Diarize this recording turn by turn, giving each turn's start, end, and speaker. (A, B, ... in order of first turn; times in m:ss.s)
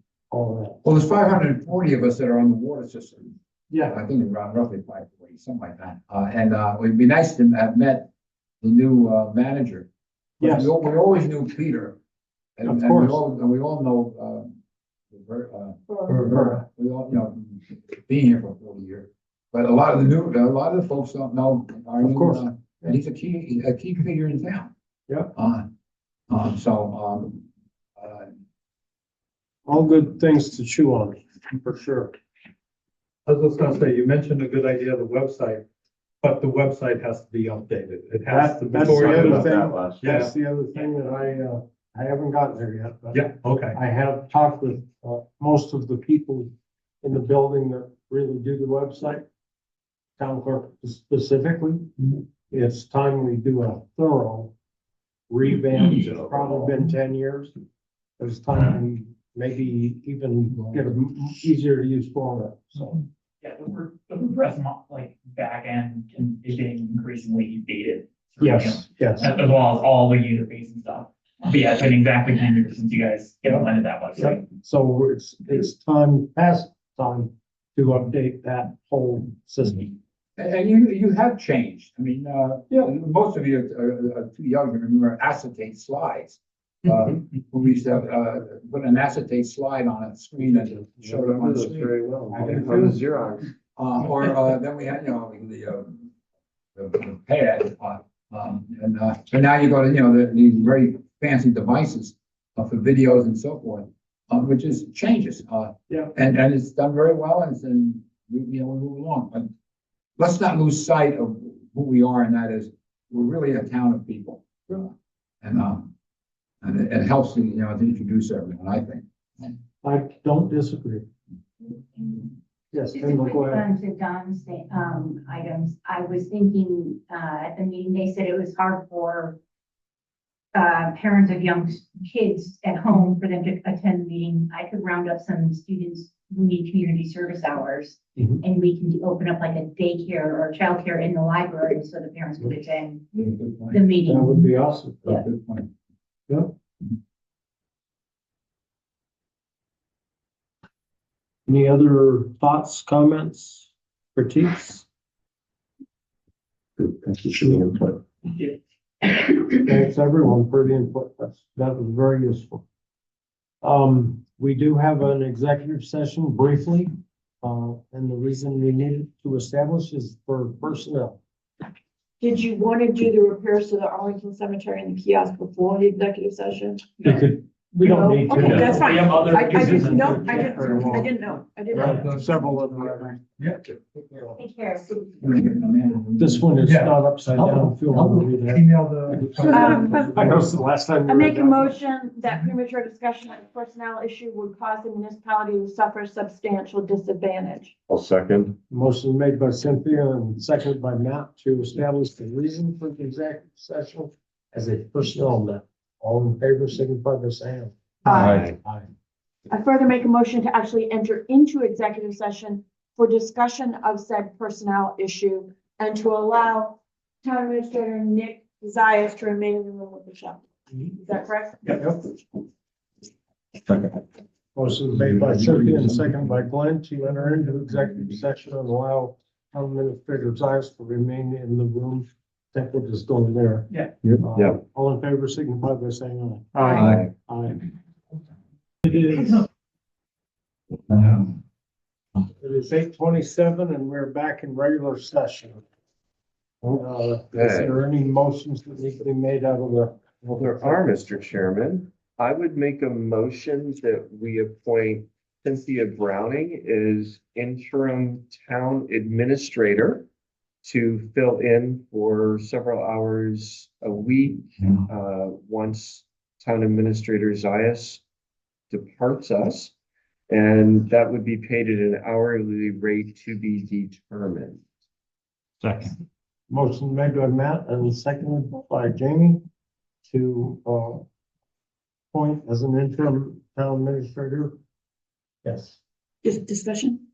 0:00.3-0:00.8 A
0:00.8-0:03.3 B
0:03.7-0:04.0 A
0:03.8-0:08.1 B
0:08.6-0:09.9 B
0:10.4-0:10.7 A
0:10.4-0:12.0 B
0:12.6-0:14.6 B
0:12.6-0:13.2 A
0:15.1-0:24.7 B
0:16.1-0:16.6 A
0:22.0-0:22.4 A
0:25.3-0:25.7 B
0:26.3-0:28.3 B
0:29.6-0:32.2 A
0:33.2-0:35.6 C
0:36.2-0:40.3 C
0:38.2-0:46.5 A
0:43.1-0:43.8 C
0:47.0-0:49.2 A
0:50.2-0:54.5 A
0:55.3-0:57.5 A
0:58.2-1:03.0 A
1:03.4-1:14.4 D
1:08.4-1:09.3 A
1:14.2-1:20.0 A
1:20.4-1:31.9 B
1:30.5-1:33.4 E
1:32.3-1:33.0 A
1:33.8-1:36.1 B
1:36.8-1:49.5 B
1:50.2-1:55.9 B
1:56.6-1:59.5 B
1:59.8-2:01.1 A
2:01.7-2:02.0 F
2:02.7-2:03.6 A
2:02.9-2:09.4 F
2:10.5-2:24.5 F
2:23.1-2:23.8 B
2:24.0-2:25.1 A
2:25.0-2:25.7 B
2:31.5-2:34.8 A
2:37.0-2:37.9 A
2:39.5-2:42.6 A
2:43.6-2:51.2 A
2:52.2-2:56.9 G
2:57.0-3:01.1 A
2:57.8-3:02.0 G
2:58.3-3:01.0 D
3:01.7-3:03.1 A
3:01.8-3:04.4 B
3:01.8-3:02.2 C
3:04.3-3:05.0 F
3:05.1-3:06.5 B
3:06.2-3:08.6 A
3:06.6-3:10.6 C
3:09.3-3:11.8 A
3:09.4-3:10.4 G
3:11.0-3:17.7 G
3:17.9-3:18.5 E
3:18.7-3:28.9 A
3:28.0-3:28.5 G
3:29.5-3:41.9 G
3:41.8-3:42.0 A
3:44.5-3:57.6 A
3:54.1-3:54.6 E
3:58.8-3:59.4 A
4:01.0-4:01.2 A
4:02.2-4:05.6 A
4:06.6-4:11.0 A
4:07.3-4:07.8 E
4:10.3-4:20.1 E
4:20.6-4:28.0 E
4:28.7-4:29.7 E
4:30.3-4:34.6 E
4:36.5-4:39.4 A
4:40.1-4:41.1 A
4:42.1-4:44.6 A
4:45.4-4:45.8 A
4:46.2-4:47.0 G